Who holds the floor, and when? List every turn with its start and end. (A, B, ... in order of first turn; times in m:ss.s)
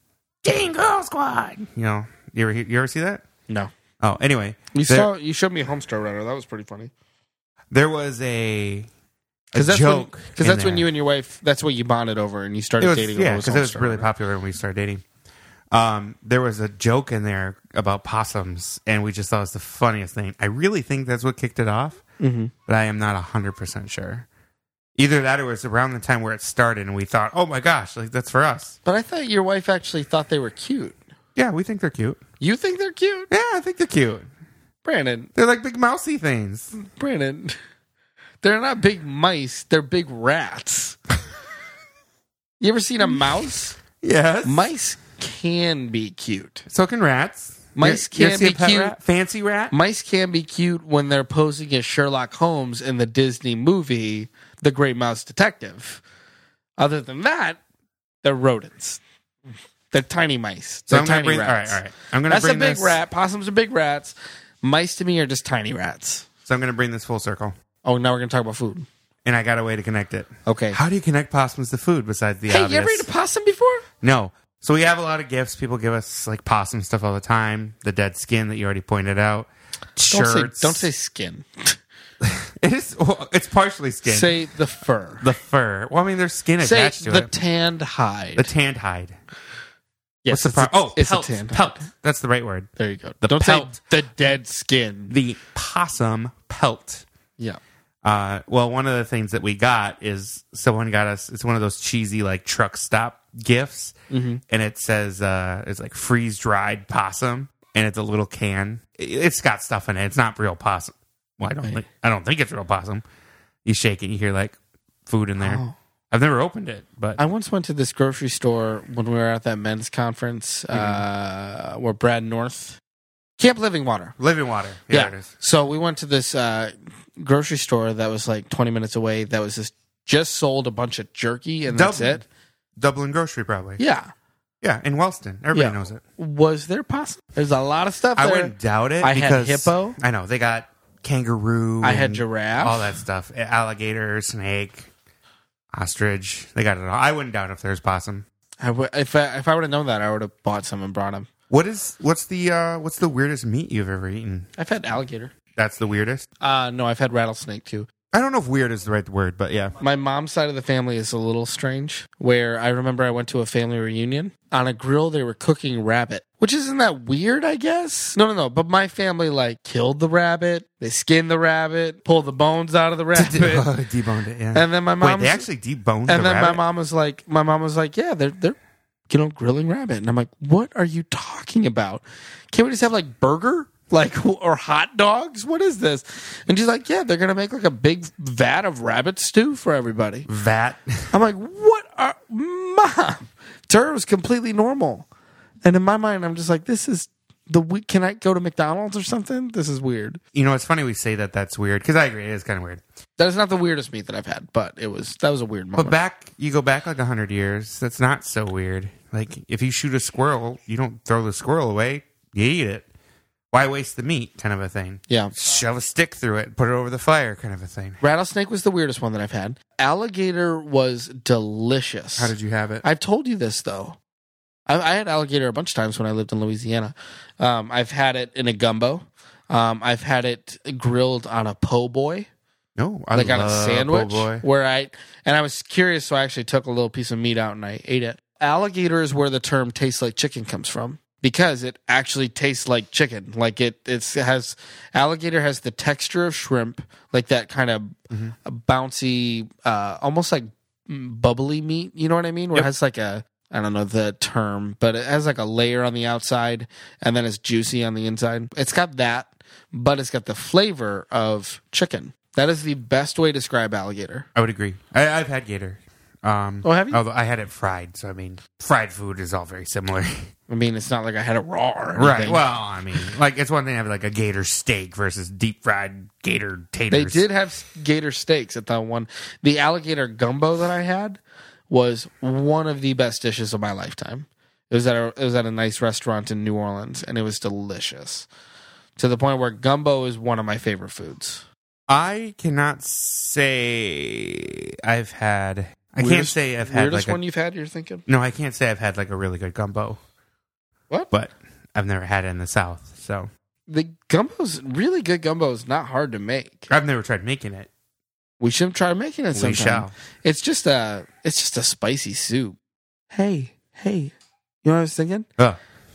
0:00.4-0:03.2 A
0:04.0-0:05.1 A
0:04.7-0:06.9 B
0:07.7-0:08.9 A
0:09.5-0:10.8 A
0:09.5-0:14.1 B
0:12.8-0:15.0 A
0:15.7-0:22.0 A
0:22.2-0:22.5 B
0:22.7-0:24.3 A
0:25.0-0:28.8 A
0:28.8-0:31.0 B
0:31.4-0:32.2 A
0:32.4-0:33.3 B
0:33.3-0:34.3 A
0:34.8-0:35.3 B
0:35.3-0:36.7 A
0:36.7-0:37.6 B
0:38.4-0:41.0 B
0:42.6-0:43.8 B
0:44.0-0:44.7 A
0:44.4-0:46.6 B
0:46.7-0:49.7 A
0:47.8-0:49.0 B
0:49.7-0:56.0 B
0:56.8-0:57.6 B
0:58.2-0:59.0 B
0:59.9-1:06.3 B
1:00.9-1:03.0 A
1:06.5-1:07.5 A
1:07.8-1:08.9 B
1:09.2-1:13.1 A
1:10.4-1:10.8 B
1:12.5-1:13.8 B
1:14.0-1:20.9 A
1:20.1-1:21.8 B
1:22.2-1:24.3 A
1:24.0-1:25.3 B
1:25.2-1:27.3 A
1:26.6-1:28.5 B
1:28.4-1:29.2 A
1:30.2-1:31.8 B
1:30.3-1:32.7 A
1:32.8-1:35.1 B
1:33.2-1:33.8 A
1:35.1-1:37.0 A
1:38.0-1:43.9 A
1:44.1-1:44.4 B
1:44.5-1:53.0 A
1:53.6-1:57.2 A
1:55.4-1:55.7 B
1:57.2-2:02.8 B
2:00.7-2:01.0 A
2:03.4-2:04.2 B
2:04.2-2:05.3 A
2:04.9-2:12.2 B
2:11.7-2:12.2 A
2:12.8-2:13.8 A
2:13.8-2:14.1 B
2:14.6-2:16.0 A
2:15.5-2:20.0 B
2:18.2-2:24.9 A
2:21.8-2:23.0 B
2:25.7-2:28.2 A
2:28.6-2:31.3 B
2:31.5-2:34.5 A
2:34.6-2:35.3 B
2:35.5-2:36.3 A
2:36.4-2:37.9 B
2:38.1-2:39.8 A
2:39.8-2:53.7 B
2:53.1-2:56.6 A
2:54.5-2:55.5 B
2:56.1-2:58.6 B
2:59.1-3:10.3 B
3:10.3-3:11.1 A
3:11.1-3:15.0 B
3:15.6-3:20.2 B
3:20.3-3:22.8 A
3:23.2-3:26.0 B
3:25.8-3:32.9 A
3:33.5-3:38.0 A
3:35.1-3:35.3 B
3:38.0-3:44.0 B
3:42.2-3:42.8 A
3:44.7-3:52.3 B
3:52.8-3:54.4 A
3:53.1-4:24.2 B
4:24.3-4:30.3 A
4:26.6-4:27.0 B
4:30.5-4:32.4 B
4:32.0-4:37.2 A
4:36.9-4:48.3 B
4:49.0-4:51.4 B
4:51.9-4:57.2 A
4:56.0-4:58.0 B
4:58.1-5:00.0 A
5:01.1-5:03.3 A
5:03.7-5:06.7 B
5:06.7-5:07.7 A
5:08.4-5:12.6 B
5:09.3-5:09.9 A
5:13.1-5:14.1 B
5:14.6-5:15.3 B